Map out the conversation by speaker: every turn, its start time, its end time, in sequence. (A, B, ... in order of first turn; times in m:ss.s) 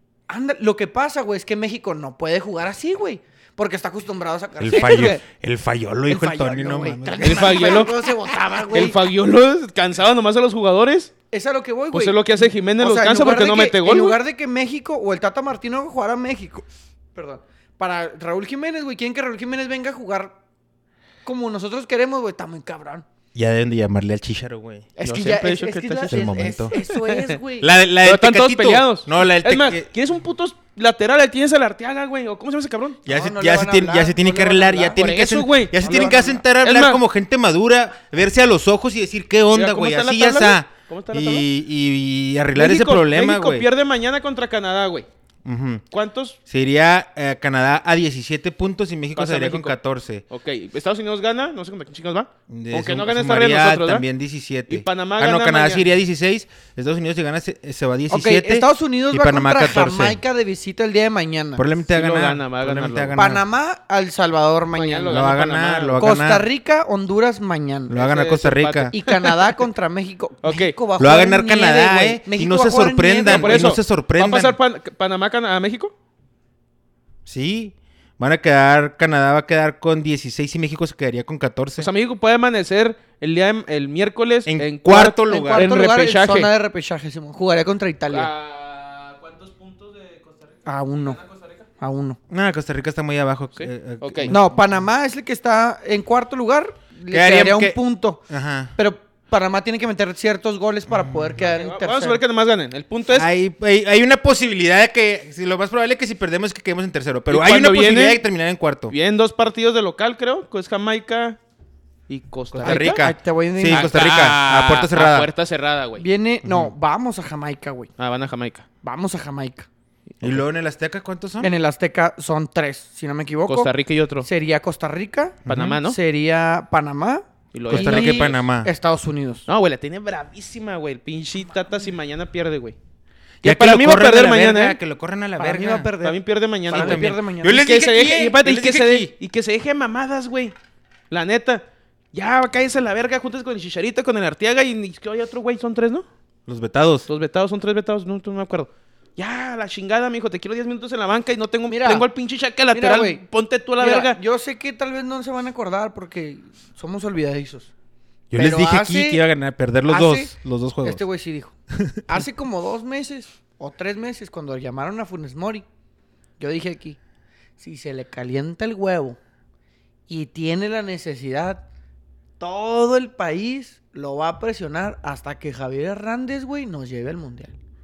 0:00.3-0:05.2 A
0:04.6-0:07.9 B
0:04.7-0:05.2 C
0:06.1-0:09.0 A
0:07.2-0:08.0 C
0:08.7-0:11.1 C
0:11.3-0:20.4 A
0:11.9-0:14.2 C
0:21.2-0:23.1 A
0:23.4-0:24.9 B
0:25.0-0:27.7 A
0:25.0-0:27.4 C
0:26.1-0:26.7 B
0:27.6-0:29.9 B
0:28.0-0:33.0 C
0:33.1-0:35.1 A
0:33.1-0:43.7 B
0:35.0-0:37.0 C
0:35.8-0:36.4 A
0:39.5-0:41.5 C
0:42.6-0:45.1 C
0:45.4-0:45.8 B
0:45.9-0:46.4 C
0:46.5-0:50.2 B
0:49.2-0:49.8 C
0:50.3-0:54.1 C
0:52.5-1:00.2 B
0:54.7-0:55.9 C
0:58.1-1:01.6 A
1:01.6-1:03.4 B
1:01.9-1:03.2 C
1:03.2-1:05.3 A
1:04.7-1:06.1 C
1:05.1-1:06.5 B
1:06.0-1:08.0 A
1:07.9-1:08.9 B
1:07.9-1:09.6 C
1:08.9-1:13.7 A
1:10.4-1:10.8 C
1:11.0-1:14.6 B
1:13.3-1:15.9 C
1:17.3-1:21.9 B
1:21.8-1:26.5 C
1:24.5-1:25.8 B
1:25.3-1:28.3 A
1:28.1-1:31.7 C
1:30.7-1:31.2 A
1:31.8-1:32.2 A
1:32.3-1:34.8 B
1:33.6-1:34.3 C
1:34.3-1:38.2 A
1:37.1-1:37.8 B
1:38.3-1:38.7 B
1:38.8-1:42.2 A
1:40.9-1:41.4 B
1:41.5-1:43.3 C
1:43.1-1:48.9 B
1:47.3-1:48.2 C
1:48.9-1:51.4 C
1:52.1-1:53.0 C
1:52.5-1:55.3 B
1:52.6-1:54.0 A
1:53.7-1:56.0 C
1:56.0-1:57.9 A
1:56.4-1:56.7 B
1:58.0-1:58.7 C
1:58.8-1:59.7 A
2:00.2-2:01.5 B
2:01.4-2:03.7 A
2:03.5-2:04.3 C
2:04.2-2:09.4 A
2:05.4-2:05.8 B
2:05.5-2:06.0 C
2:07.5-2:08.4 C
2:07.7-2:08.7 B
2:09.5-2:12.8 C
2:13.4-2:14.8 C
2:13.4-2:15.9 B
2:15.4-2:17.7 A
2:16.0-2:20.5 C
2:16.7-2:19.1 B
2:21.1-2:26.1 C
2:26.5-2:27.1 B
2:27.1-2:34.2 C
2:31.7-2:32.1 A
2:32.7-2:33.2 A
2:33.8-2:37.7 A
2:38.3-2:41.0 B
2:38.4-2:39.2 A
2:39.9-2:41.6 A
2:41.8-2:42.0 B
2:42.1-2:45.6 A
2:46.4-2:47.0 A
2:47.6-2:49.2 A
2:50.1-2:51.6 A
2:52.4-2:57.5 A